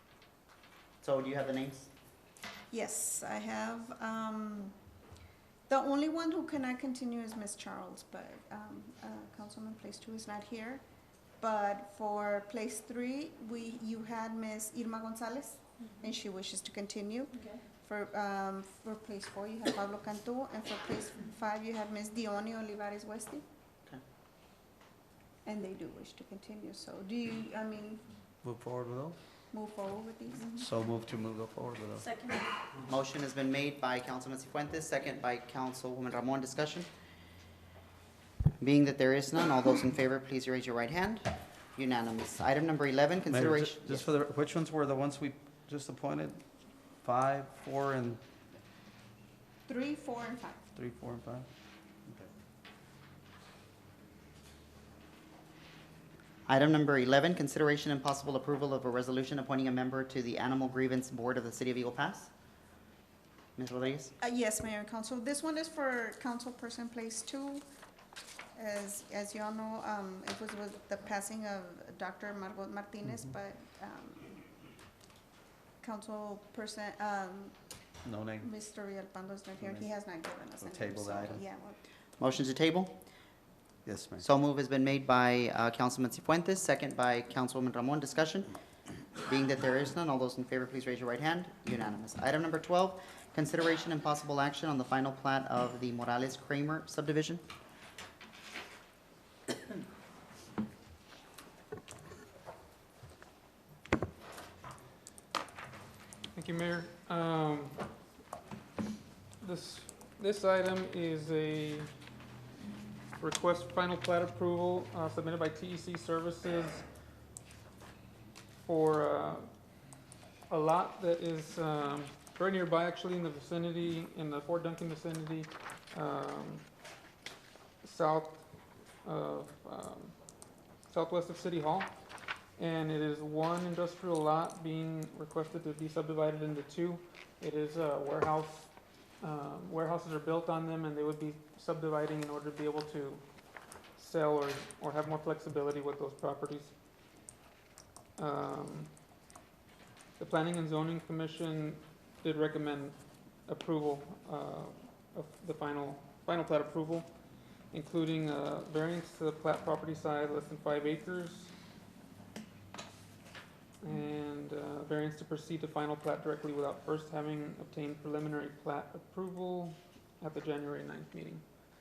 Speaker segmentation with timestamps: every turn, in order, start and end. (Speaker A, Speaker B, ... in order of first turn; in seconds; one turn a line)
Speaker A: 1.0-1.9
Speaker B: 2.7-4.8
Speaker B: 5.7-10.8
Speaker B: 11.4-23.4
Speaker B: 25.5-28.0
Speaker C: 28.4-29.2
Speaker B: 29.5-30.6
Speaker C: 30.5-32.1
Speaker A: 32.9-36.9
Speaker A: 38.6-44.1
Speaker C: 43.3-46.4
Speaker C: 47.0-48.2
Speaker B: 49.7-50.7
Speaker C: 50.8-51.5
Speaker A: 56.5-62.3
Speaker A: 63.6-64.1
Speaker B: 64.2-67.7
Speaker B: 68.5-74.3
Speaker B: 75.8-77.5
Speaker C: 78.0-78.5
Speaker B: 78.4-81.8
Speaker C: 80.6-81.4
Speaker A: 82.2-83.0
Speaker C: 83.8-84.2
Speaker A: 84.2-88.5
Speaker A: 89.3-97.4
Speaker D: 106.3-107.9
Speaker D: 109.4-111.9
Speaker D: 113.2-116.9
Speaker D: 118.7-119.5
Speaker D: 120.5-126.7
Speaker D: 127.8-128.4
Speaker D: 129.0-130.2
Speaker D: 130.9-131.9
Speaker D: 132.6-143.2
Speaker D: 144.0-146.7
Speaker D: 148.2-148.9
Speaker D: 150.2-157.1
Speaker D: 157.7-161.5
Speaker D: 163.8-171.4